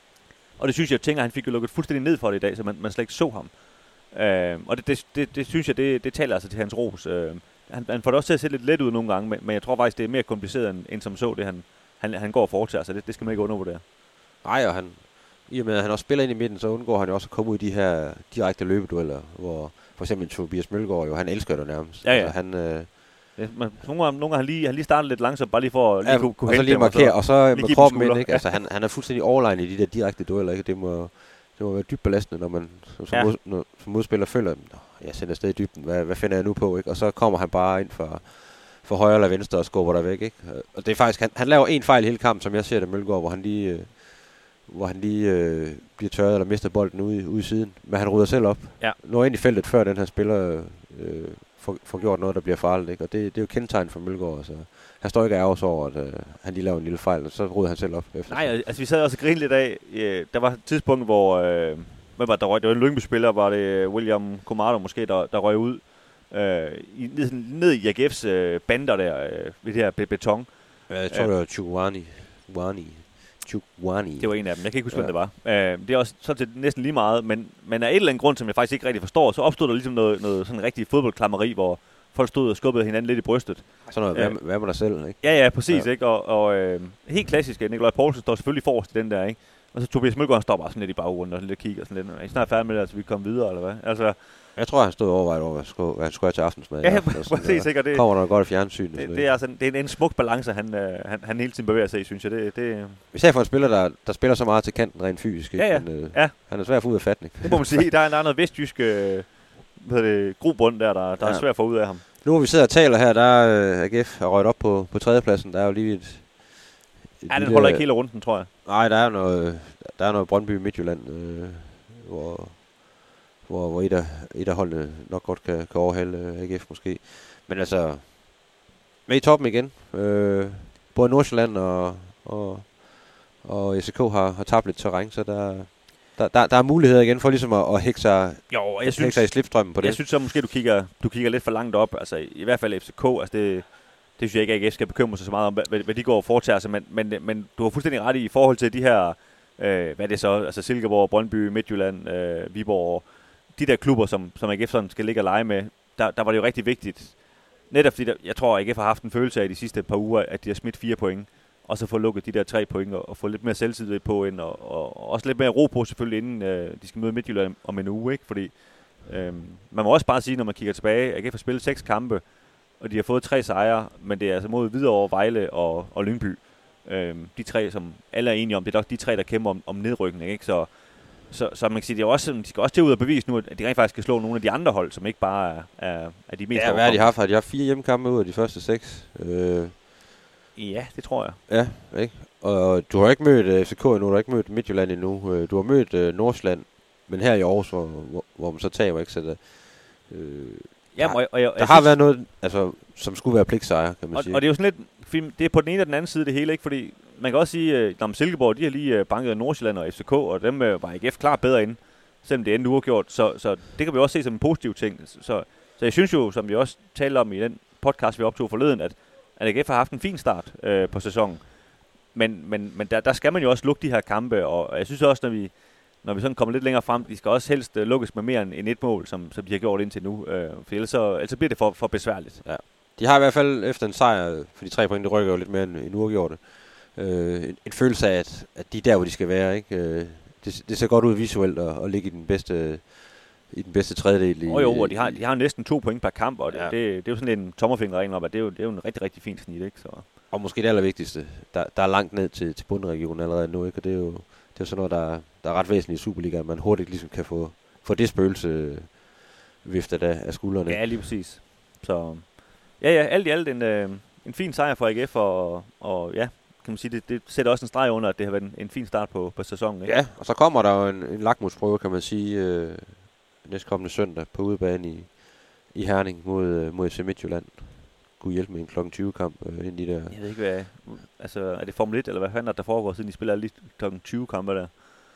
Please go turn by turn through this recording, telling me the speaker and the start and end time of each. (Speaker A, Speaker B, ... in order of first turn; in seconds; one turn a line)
Speaker A: 0.5-13.8
Speaker B: 14.4-23.0
Speaker A: 22.0-28.5
Speaker B: 26.0-58.6
Speaker A: 33.1-33.3
Speaker A: 58.3-71.3
Speaker B: 70.9-75.2
Speaker A: 74.2-94.3
Speaker B: 83.9-85.9
Speaker B: 94.5-99.3
Speaker A: 96.8-103.0
Speaker B: 103.1-107.9
Speaker A: 105.6-112.0
Speaker B: 111.2-140.1
Speaker A: 117.3-118.5
Speaker A: 138.5-187.1
Speaker B: 186.5-189.8
Speaker A: 190.6-191.4
Speaker B: 191.5-204.4
Speaker A: 200.9-202.0
Speaker A: 204.1-232.5
Speaker B: 232.4-245.2
Speaker A: 244.4-250.1
Speaker B: 246.5-246.8
Speaker B: 250.3-260.9
Speaker A: 260.7-269.9
Speaker B: 269.9-280.2
Speaker A: 280.1-284.8